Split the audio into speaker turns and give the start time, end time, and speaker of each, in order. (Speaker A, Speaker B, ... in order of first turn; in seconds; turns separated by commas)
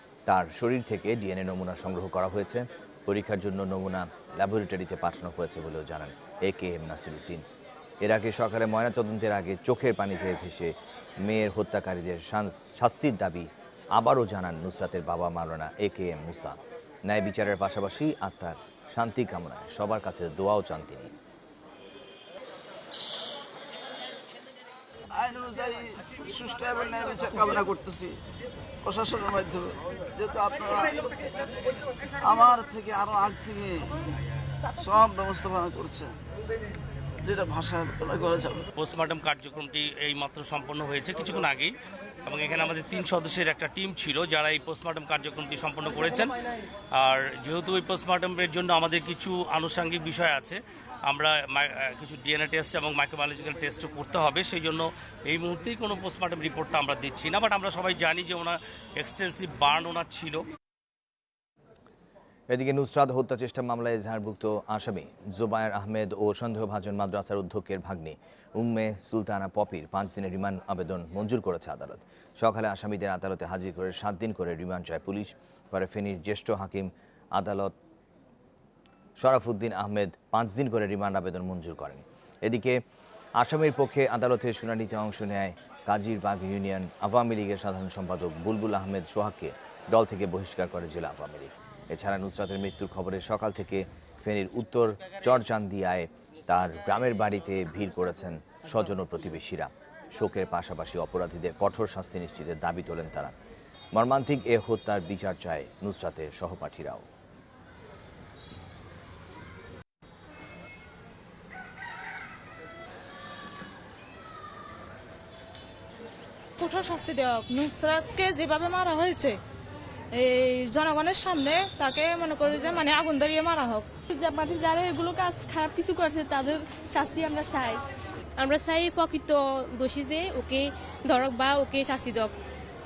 Speaker A: 0.2-7.4, Speaker A: 8.0-21.1, Speaker B: 25.1-28.2, Speaker B: 28.8-31.0, Speaker B: 32.2-34.0, Speaker B: 34.8-36.1, Speaker B: 37.2-38.7, Speaker C: 38.8-41.7, Speaker C: 42.2-46.3, Speaker C: 46.9-60.4, Speaker A: 62.5-77.7, Speaker A: 79.2-82.8, Speaker A: 83.4-103.3, Speaker A: 103.9-107.0, Speaker D: 116.6-119.4, Speaker D: 120.1-123.9, Speaker E: 124.1-127.8, Speaker F: 128.4-132.3